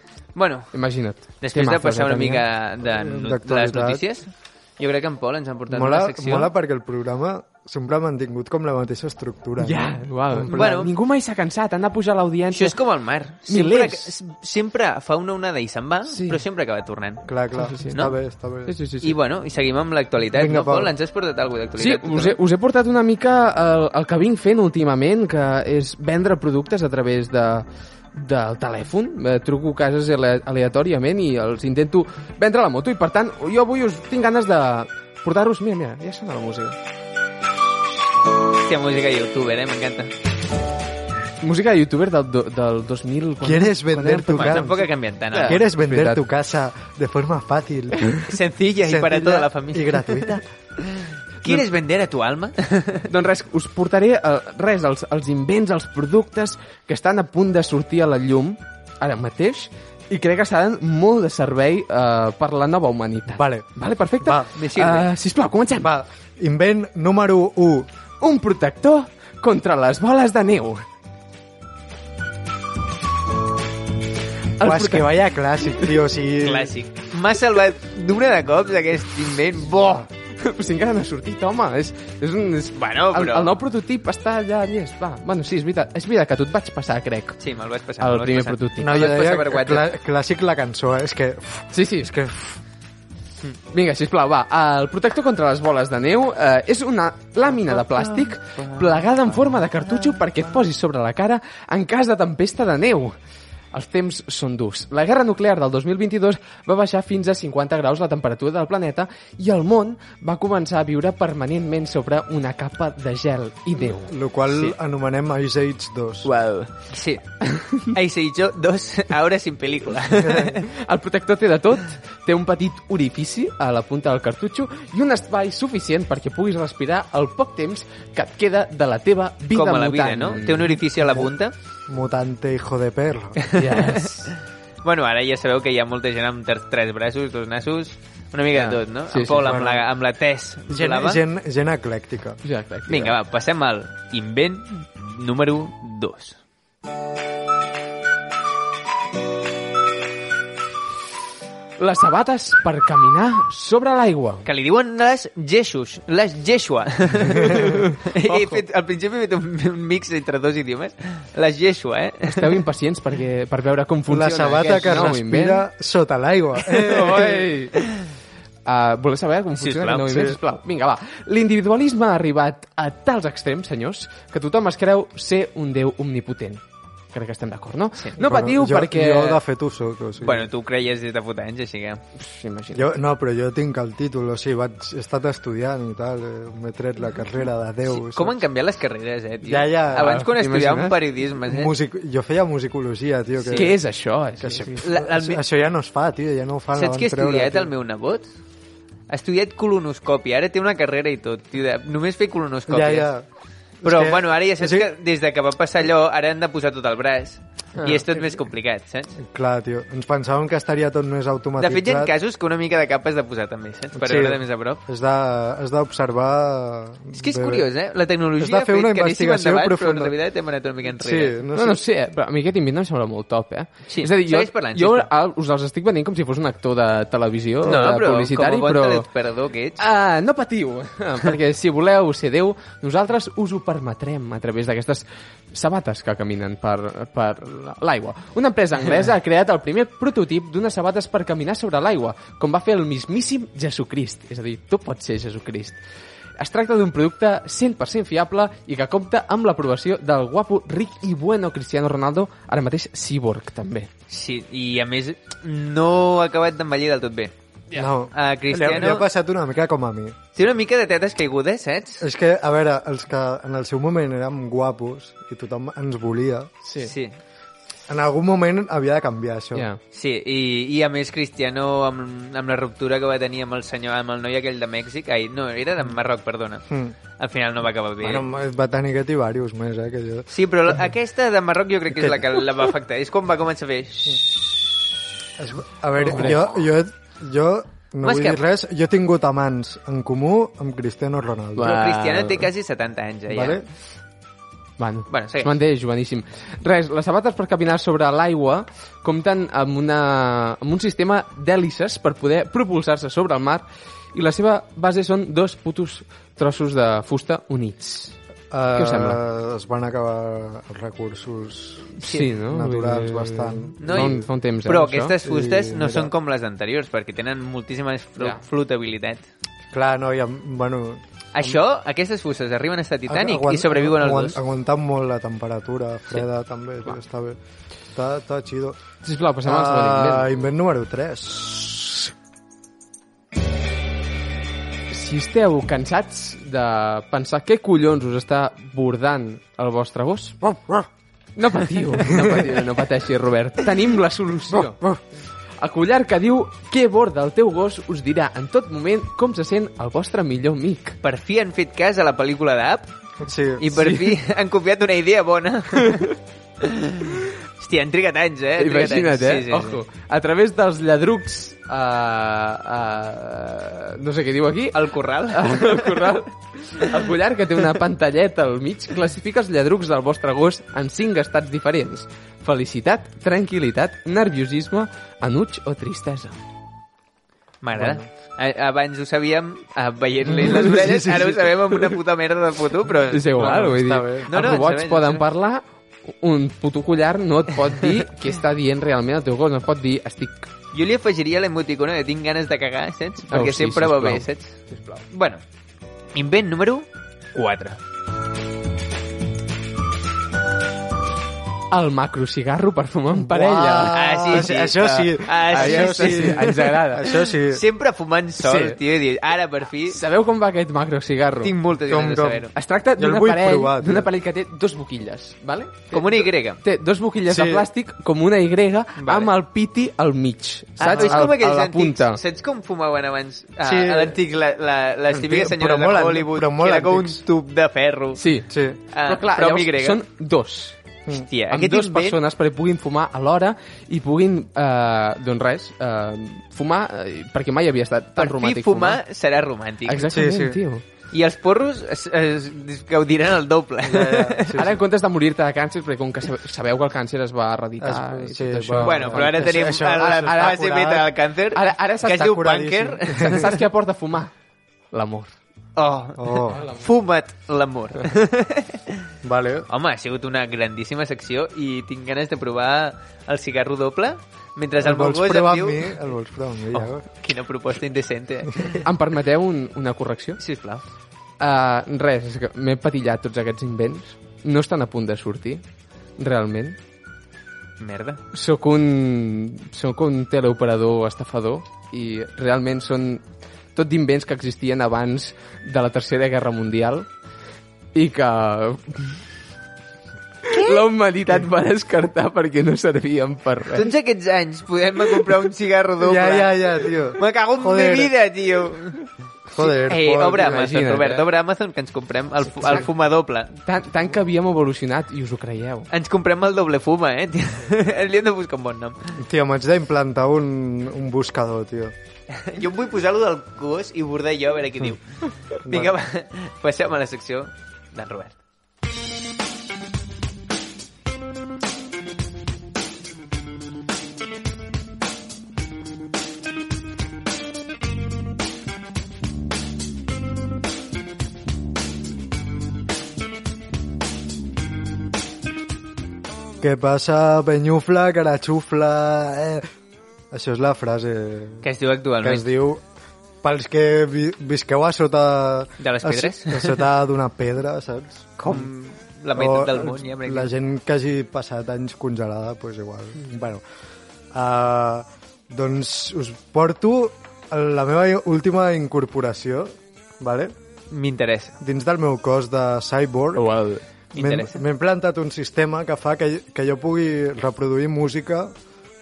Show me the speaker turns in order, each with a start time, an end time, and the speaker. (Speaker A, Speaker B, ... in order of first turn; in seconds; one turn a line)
Speaker A: 0.3-0.7
Speaker B: 0.7-2.5
Speaker A: 1.4-6.5
Speaker C: 2.9-4.0
Speaker C: 5.7-10.8
Speaker B: 9.6-12.8
Speaker A: 10.5-10.9
Speaker A: 12.5-17.3
Speaker B: 13.5-14.1
Speaker B: 16.1-16.4
Speaker C: 17.3-18.8
Speaker B: 17.6-18.0
Speaker B: 18.7-19.2
Speaker A: 19.0-22.4
Speaker C: 20.3-20.9
Speaker B: 21.8-36.8
Speaker A: 38.6-40.1
Speaker B: 41.4-44.8
Speaker C: 43.4-44.9
Speaker A: 44.3-45.6
Speaker B: 45.3-46.2
Speaker C: 45.4-48.3
Speaker A: 48.2-53.1
Speaker C: 48.8-50.4
Speaker B: 53.1-65.9
Speaker C: 63.4-63.7
Speaker C: 64.2-64.5
Speaker A: 64.5-65.1
Speaker C: 65.8-67.9
Speaker B: 68.2-70.8
Speaker B: 74.6-76.0
Speaker C: 74.6-76.7
Speaker A: 76.4-80.1
Speaker B: 80.4-87.4
Speaker A: 82.8-83.5
Speaker A: 87.4-89.9
Speaker B: 88.0-89.1
Speaker C: 88.8-92.6
Speaker B: 91.7-92.1
Speaker B: 93.7-103.2
Speaker A: 97.6-99.0
Speaker A: 99.7-100.2
Speaker B: 103.7-114.1
Speaker C: 113.9-116.3
Speaker A: 114.5-114.8
Speaker B: 116.2-116.7
Speaker A: 116.9-117.2
Speaker B: 117.4-118.0
Speaker A: 117.8-120.7
Speaker B: 120.6-130.8
Speaker A: 129.5-131.5
Speaker C: 131.9-133.4
Speaker A: 133.4-141.2
Speaker B: 133.6-134.3
Speaker B: 138.5-139.7
Speaker C: 139.4-139.8
Speaker C: 140.7-142.4
Speaker B: 142.4-143.2
Speaker A: 142.9-146.4
Speaker B: 151.8-154.5
Speaker A: 154.5-162.6
Speaker B: 157.5-158.6
Speaker B: 162.3-165.7
Speaker C: 164.1-167.4
Speaker A: 164.4-165.1
Speaker B: 166.7-167.8
Speaker B: 168.7-179.4
Speaker A: 169.6-170.3
Speaker C: 170.1-170.4
Speaker C: 178.2-180.5
Speaker A: 180.2-182.0
Speaker B: 182.2-183.0
Speaker C: 182.8-188.4
Speaker A: 187.9-191.7
Speaker C: 189.4-190.2
Speaker B: 189.9-191.0
Speaker C: 191.4-193.8
Speaker A: 193.4-193.7
Speaker B: 193.5-194.8
Speaker C: 194.4-197.7
Speaker A: 194.8-195.4
Speaker A: 196.8-198.3
Speaker A: 199.1-203.1
Speaker C: 202.7-203.2
Speaker C: 203.8-204.9
Speaker A: 203.8-209.2
Speaker C: 207.8-208.4
Speaker C: 209.2-212.1
Speaker A: 211.6-214.8
Speaker C: 214.0-217.7
Speaker A: 217.2-221.4
Speaker C: 218.4-220.2
Speaker C: 220.9-221.8
Speaker B: 221.6-229.1
Speaker A: 223.9-225.1
Speaker A: 227.7-229.8
Speaker B: 229.8-245.8
Speaker B: 246.4-253.9
Speaker A: 254.1-257.3
Speaker C: 257.8-260.2
Speaker A: 258.1-259.1
Speaker A: 260.4-262.0
Speaker C: 262.0-266.5
Speaker B: 266.6-266.9
Speaker A: 266.8-267.2
Speaker C: 267.9-269.7
Speaker B: 269.6-269.8
Speaker A: 269.9-276.7
Speaker C: 276.7-276.9
Speaker A: 277.2-278.2
Speaker C: 278.0-280.3
Speaker A: 280.3-284.2
Speaker C: 285.4-291.7
Speaker B: 286.0-286.5
Speaker A: 288.0-288.4
Speaker B: 291.6-292.5
Speaker A: 291.6-293.6
Speaker C: 293.3-293.6
Speaker B: 294.8-308.1
Speaker A: 295.1-295.5
Speaker C: 308.5-314.2
Speaker B: 308.7-309.2
Speaker B: 312.0-315.2
Speaker A: 312.0-312.3
Speaker A: 313.8-319.2
Speaker C: 315.2-316.1
Speaker C: 319.7-321.6
Speaker A: 321.3-324.4
Speaker C: 323.1-327.4
Speaker C: 327.9-328.8
Speaker B: 329.0-330.4
Speaker C: 329.4-332.1
Speaker B: 334.9-340.5
Speaker B: 341.4-344.9
Speaker B: 345.6-351.0
Speaker A: 351.0-352.9
Speaker C: 353.2-353.6
Speaker A: 353.6-359.8
Speaker B: 353.7-354.2
Speaker B: 355.7-356.2
Speaker B: 358.6-376.4
Speaker A: 364.7-366.1
Speaker A: 377.6-383.7
Speaker C: 377.8-378.0
Speaker C: 380.4-381.4
Speaker B: 380.5-381.2
Speaker B: 383.1-390.5
Speaker C: 383.4-384.3
Speaker A: 384.3-385.3
Speaker A: 390.7-395.4
Speaker B: 393.3-395.0
Speaker A: 396.1-397.8
Speaker B: 401.7-404.6
Speaker C: 403.1-407.6
Speaker A: 403.9-410.0
Speaker B: 405.3-407.2
Speaker B: 408.4-408.8
Speaker B: 409.9-411.6
Speaker A: 411.4-412.5
Speaker C: 411.9-414.1
Speaker B: 412.6-422.2
Speaker A: 415.9-416.6
Speaker C: 417.3-417.7
Speaker A: 419.0-419.3
Speaker A: 420.8-428.2
Speaker C: 420.9-421.3
Speaker C: 423.6-424.2
Speaker C: 425.1-427.2
Speaker B: 428.1-430.8
Speaker C: 428.5-428.8
Speaker A: 428.9-430.0
Speaker A: 431.1-432.2
Speaker B: 431.5-439.0
Speaker A: 438.2-440.1
Speaker B: 439.9-440.8
Speaker C: 440.1-440.6
Speaker A: 441.1-444.6
Speaker C: 443.8-444.8
Speaker B: 444.5-450.7
Speaker C: 447.8-451.1
Speaker A: 448.8-453.5
Speaker B: 451.5-452.4
Speaker C: 452.1-453.4
Speaker B: 453.1-454.3
Speaker B: 454.9-455.3
Speaker A: 455.8-459.0
Speaker C: 456.2-456.6
Speaker B: 456.5-456.9
Speaker C: 459.2-459.7
Speaker A: 459.7-466.0
Speaker C: 464.8-467.1
Speaker A: 466.7-468.8
Speaker B: 468.8-470.4
Speaker A: 470.4-470.8
Speaker B: 471.4-475.6
Speaker B: 476.2-476.8
Speaker A: 477.8-478.2
Speaker B: 478.3-487.1
Speaker B: 487.9-489.2
Speaker B: 490.4-493.9
Speaker A: 493.7-499.1
Speaker C: 496.0-498.1
Speaker C: 499.5-500.7
Speaker A: 499.6-503.5
Speaker B: 500.4-501.3
Speaker B: 502.6-502.9
Speaker B: 503.6-505.9
Speaker A: 505.9-509.2
Speaker C: 509.2-511.9
Speaker A: 512.4-515.0
Speaker C: 515.6-515.9
Speaker A: 515.6-518.4
Speaker C: 536.6-539.7
Speaker C: 540.3-541.7
Speaker A: 541.6-542.5
Speaker C: 542.2-542.8
Speaker C: 543.4-548.7
Speaker A: 545.8-546.8
Speaker A: 548.4-550.5
Speaker C: 549.4-553.6
Speaker C: 554.3-560.5
Speaker A: 560.9-561.6
Speaker C: 561.6-563.5
Speaker B: 563.4-563.8
Speaker A: 564.1-564.6
Speaker C: 564.2-568.5